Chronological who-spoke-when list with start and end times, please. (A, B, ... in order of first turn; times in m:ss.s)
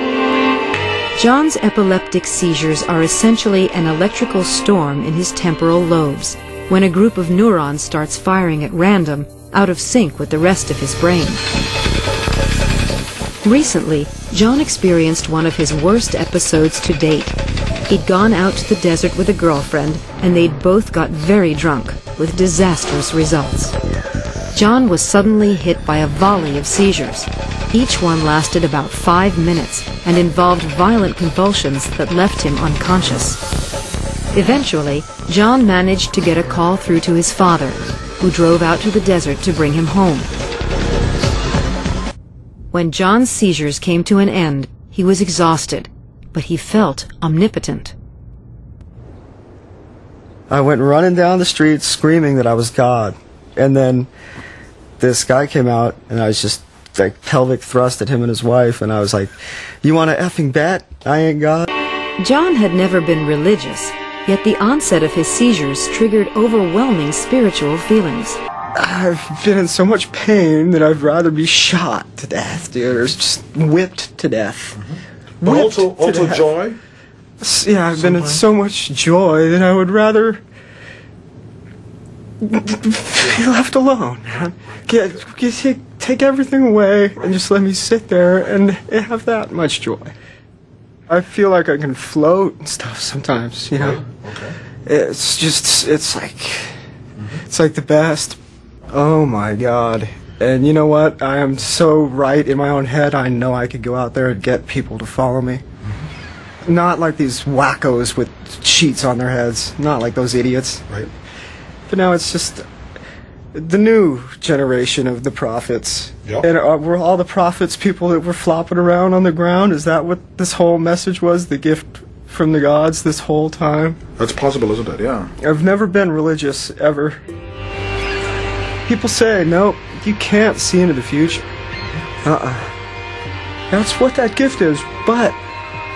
0:01.2-0:11.4 A
0:13.4-0:17.4 A
0:17.9-0:23.8 A
0:24.5-0:33.4 A
0:34.3-0:40.3 A
0:42.7-0:48.0 A
0:50.5-0:54.1 B
0:55.0-0:59.3 B
0:59.8-1:01.7 B
1:02.2-1:08.4 A
1:08.8-1:14.8 B
1:15.4-1:16.5 B
1:15.4-1:16.8 C
1:17.4-1:20.4 B
1:22.4-1:30.1 B
1:31.1-1:34.0 B
1:34.1-1:34.5 C
1:34.8-1:36.8 B
1:37.4-1:38.4 B
1:38.9-1:45.6 B
1:46.7-1:51.1 B
1:51.9-1:52.7 B
1:53.5-2:04.0 B
2:04.2-2:05.3 C
2:05.4-2:07.2 B
2:08.8-2:11.5 B
2:12.2-2:12.7 B
2:13.7-2:15.4 B